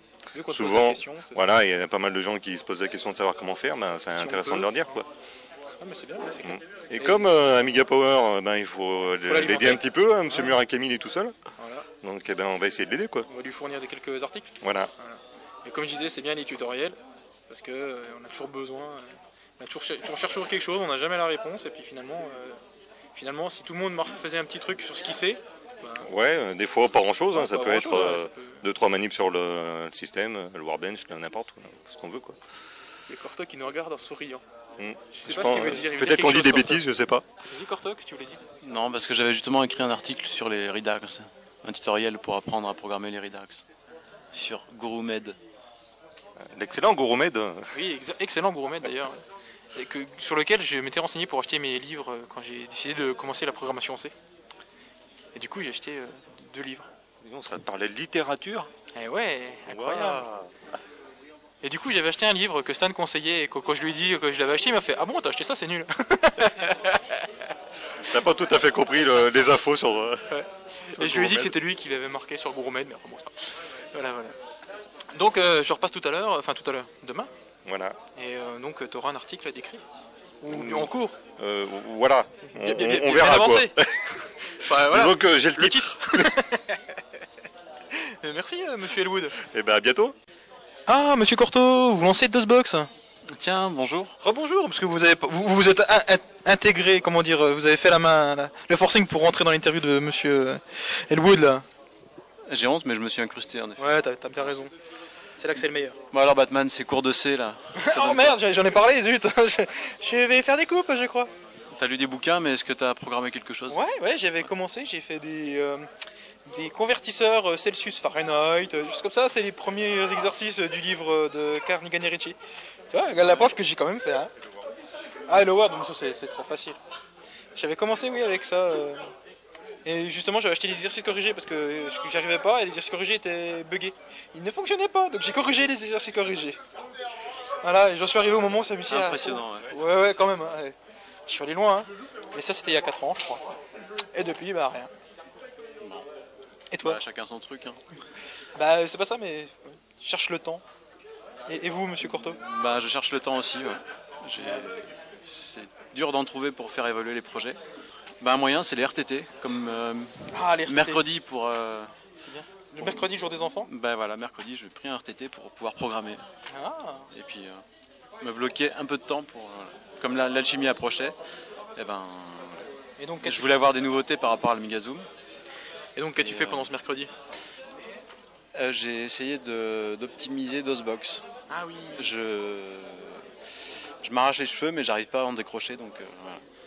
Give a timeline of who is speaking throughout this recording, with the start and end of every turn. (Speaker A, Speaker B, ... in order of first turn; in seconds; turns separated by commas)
Speaker A: 0.3-1.4, Speaker B: 0.5-5.0, Speaker A: 4.1-5.0, Speaker A: 5.8-7.3, Speaker B: 6.4-11.3, Speaker A: 9.2-10.6, Speaker A: 11.6-11.9, Speaker B: 12.0-13.3, Speaker A: 13.3-17.0, Speaker B: 14.6-14.9, Speaker A: 17.5-22.6, Speaker A: 23.1-26.1, Speaker B: 26.0-32.4, Speaker A: 27.3-28.6, Speaker A: 33.1-34.4, Speaker B: 34.8-37.2, Speaker A: 35.1-36.8, Speaker A: 37.4-38.4, Speaker C: 38.6-43.6, Speaker C: 44.3-45.4, Speaker B: 46.5-47.7, Speaker A: 47.7-49.2, Speaker A: 49.7-54.1, Speaker A: 55.3-56.9, Speaker B: 57.2-58.7, Speaker A: 58.9-60.2, Speaker B: 59.7-60.5, Speaker A: 61.6-67.0, Speaker B: 68.1-70.2, Speaker A: 68.9-69.6, Speaker A: 70.3-73.3, Speaker B: 70.9-71.6, Speaker A: 73.9-74.3, Speaker A: 75.1-77.3, Speaker B: 77.6-78.0, Speaker A: 78.2-79.8, Speaker A: 80.4-81.2, Speaker B: 80.5-84.0, Speaker A: 82.5-83.7, Speaker A: 84.6-86.8, Speaker B: 84.8-86.3, Speaker A: 88.0-89.3, Speaker B: 89.4-90.1, Speaker A: 90.9-92.9, Speaker C: 93.3-94.1, Speaker A: 94.2-101.6, Speaker C: 102.5-103.9, Speaker A: 103.8-104.7, Speaker A: 105.4-106.0, Speaker C: 106.1-108.7, Speaker A: 107.7-111.3, Speaker C: 111.7-113.8, Speaker A: 113.7-115.9, Speaker A: 116.5-122.3, Speaker A: 122.9-124.3, Speaker A: 125.3-126.8, Speaker A: 127.5-129.1, Speaker A: 129.8-136.6, Speaker A: 137.6-140.7, Speaker C: 138.9-139.7, Speaker A: 141.3-143.4, Speaker A: 144.1-144.9, Speaker A: 146.7-147.0, Speaker C: 146.8-147.8, Speaker A: 148.5-150.6, Speaker A: 151.5-152.4, Speaker C: 152.2-157.6, Speaker C: 158.2-161.9, Speaker A: 160.3-161.1, Speaker A: 162.2-163.7, Speaker C: 162.8-163.1, Speaker C: 163.6-166.2, Speaker A: 166.5-167.1, Speaker C: 167.1-167.6, Speaker C: 168.2-171.2, Speaker C: 171.7-172.6, Speaker A: 173.0-173.7, Speaker C: 173.2-175.1, Speaker A: 175.9-177.1, Speaker C: 176.2-176.7, Speaker C: 178.5-181.2, Speaker A: 181.5-182.1, Speaker C: 181.9-183.2, Speaker C: 184.0-186.4